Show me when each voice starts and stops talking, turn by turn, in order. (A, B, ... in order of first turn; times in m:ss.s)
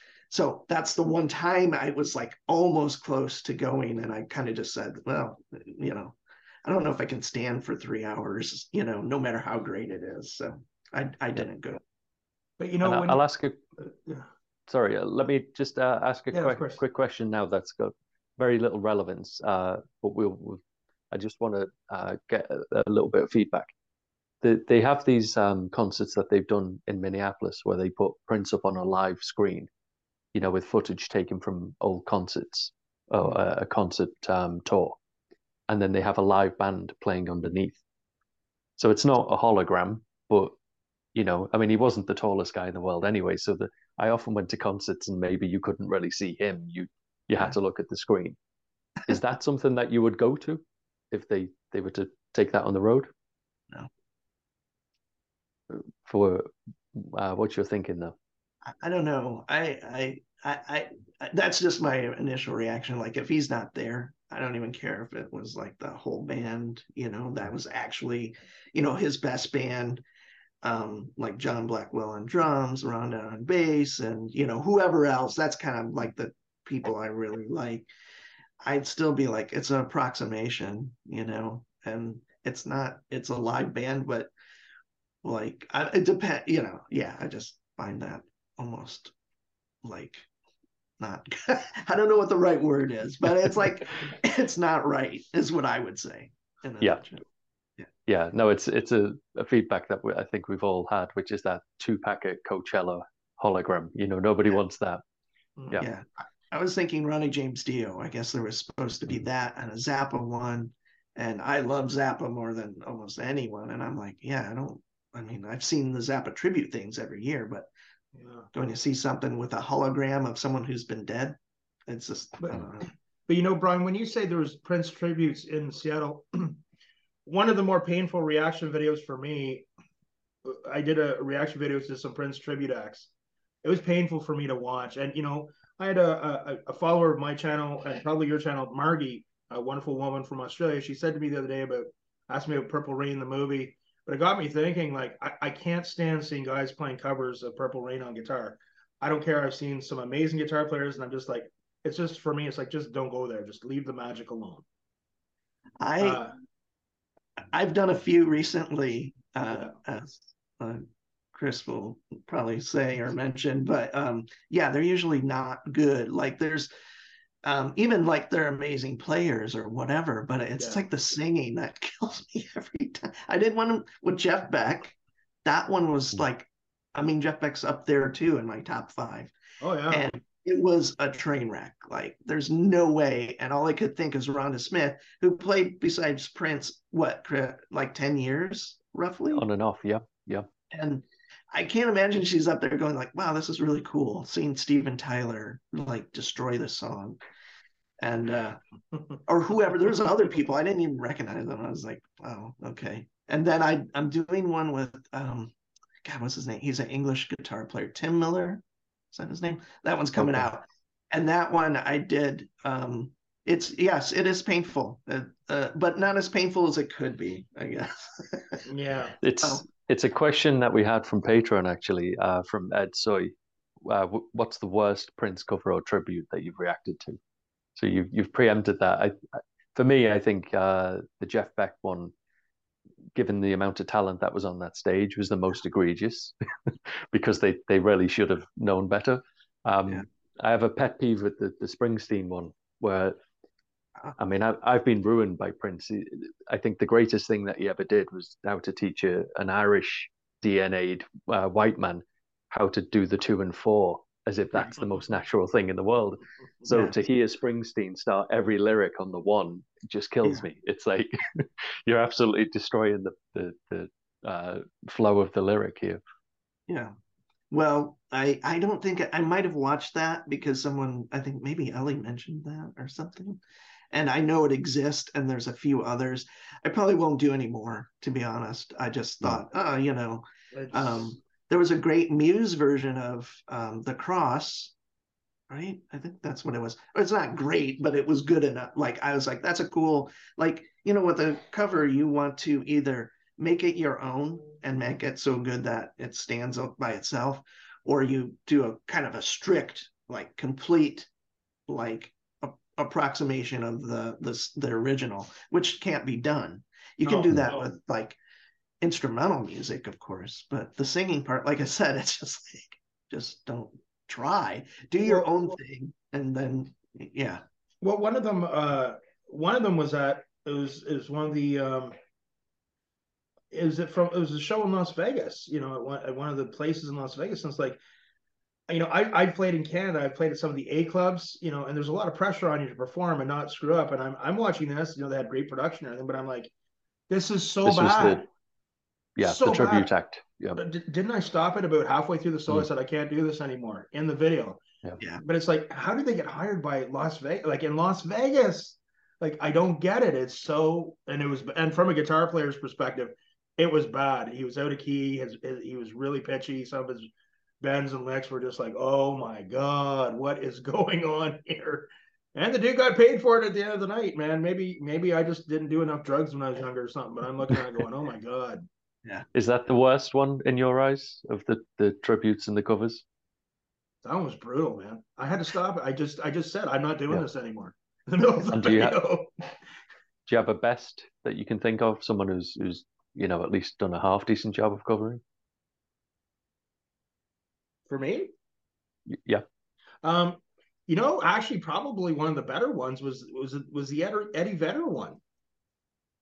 0:00.3-0:11.8 A
0:12.6-0:13.2 B
0:12.8-0:13.6 C
0:14.7-0:20.6 C
0:16.3-0:16.8 B
0:21.1-0:23.7 C
0:24.4-0:29.7 C
0:30.3-0:35.0 C
0:35.7-0:37.8 C
0:38.8-0:40.6 C
0:41.2-0:48.4 C
0:49.1-0:53.1 C
0:55.7-0:58.1 C
0:58.7-1:10.0 A
1:10.6-1:17.9 A
1:18.6-1:24.3 A
1:25.2-1:29.1 A
1:29.8-1:30.3 A
1:31.0-1:37.2 A
1:38.1-1:45.0 C
1:45.8-1:57.7 A
1:58.2-1:58.5 B
1:58.5-2:02.9 A
2:03.3-2:06.6 B
2:07.3-2:09.7 B
2:10.5-2:13.1 B
2:13.6-2:34.6 B
2:35.8-2:36.2 A
2:36.0-2:36.3 B
2:37.4-2:46.7 A
2:47.4-2:59.3 A
2:50.6-2:50.8 B
2:59.6-3:00.1 B
2:59.9-3:09.4 A
3:09.3-3:10.5 C
3:10.7-3:17.2 A
3:18.0-3:18.6 A
3:19.3-3:38.6 A
3:30.2-3:30.5 C
3:38.7-3:39.2 B
3:39.2-3:47.2 C
3:47.8-3:49.2 C
3:49.8-3:52.1 C
3:53.2-4:03.2 C
4:04.2-4:26.0 C
4:16.7-4:16.9 A
4:26.7-4:26.9 A
4:27.5-4:44.7 A
4:40.5-4:41.2 B
4:45.5-5:01.1 A
5:01.7-5:08.2 A
5:07.1-5:07.7 B
5:08.8-5:17.4 A
5:15.1-5:15.5 B
5:17.8-5:21.9 B
5:23.5-5:27.8 B
5:28.7-5:36.5 B
5:37.1-5:38.3 B
5:37.6-5:38.2 C
5:39.2-5:40.6 C
5:39.2-5:39.9 B
5:40.6-5:44.6 B
5:45.2-5:57.1 B
5:57.6-6:08.7 B
6:09.4-6:13.0 C
6:14.0-6:19.3 B
6:18.5-6:19.0 C
6:20.3-6:25.2 C
6:27.9-6:28.3 B
6:29.1-6:29.4 C
6:30.0-6:35.2 B